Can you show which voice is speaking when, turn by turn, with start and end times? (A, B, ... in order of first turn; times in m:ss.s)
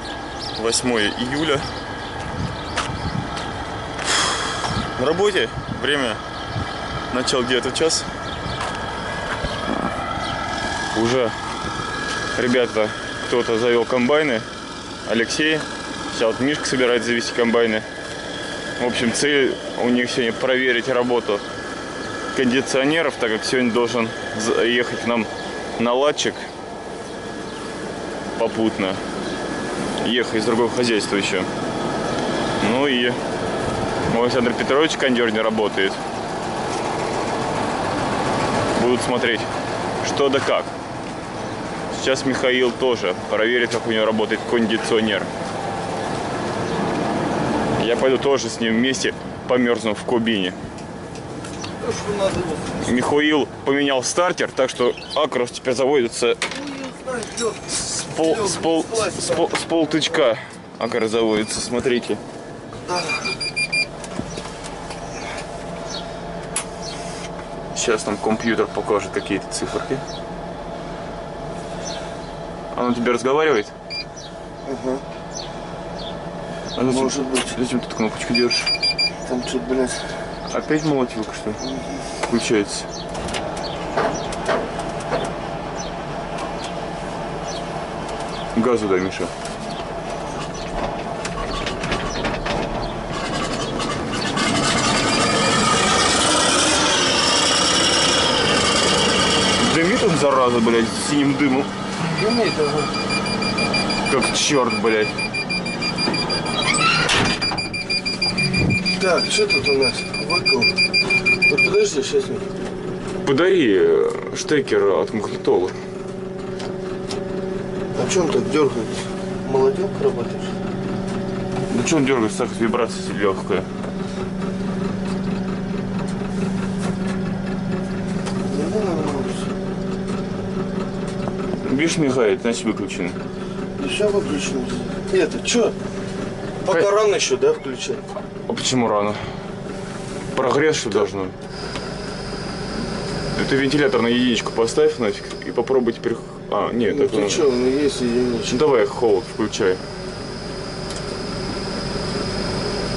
0:00.6-0:01.7 A
0:04.9-0:06.2 A
0:07.1-0:08.1 A
0:10.9-0:11.4 A
0:12.3-0:14.5 A
0:15.0-0:17.9 A
0:18.8-0:21.4 A
0:22.3-0:26.5 A
0:28.4-0:29.0 A
0:30.0-0:31.5 A
0:32.6-0:33.2 A
0:34.1-0:36.0 A
0:38.8-0:39.5 A
0:40.0-0:40.7 A
0:41.9-0:45.3 A
0:47.8-0:50.6 A
0:51.8-0:52.9 B
0:52.8-0:56.4 A
0:56.5-1:00.2 B
0:57.9-1:02.2 A
1:02.8-1:03.4 B
1:07.7-1:10.0 A
1:12.7-1:13.7 A
1:14.6-1:15.0 B
1:16.7-1:18.7 A
1:16.8-1:17.6 B
1:19.2-1:20.3 B
1:20.5-1:21.6 A
1:21.6-1:22.0 B
1:22.2-1:22.9 A
1:28.5-1:29.3 A
1:39.5-1:41.7 A
1:42.1-1:42.9 B
1:44.0-1:45.2 A
1:48.9-1:50.7 B
1:51.4-1:52.5 B
1:53.2-1:55.8 A
1:57.9-2:00.5 B
2:01.7-2:03.7 A
2:08.4-2:09.5 B
2:11.6-2:13.2 A
2:13.8-2:15.7 B
2:16.6-2:18.0 B
2:18.5-2:19.2 A
2:20.3-2:21.4 A
2:23.3-2:27.4 A
2:26.8-2:28.6 B
2:28.5-2:29.8 A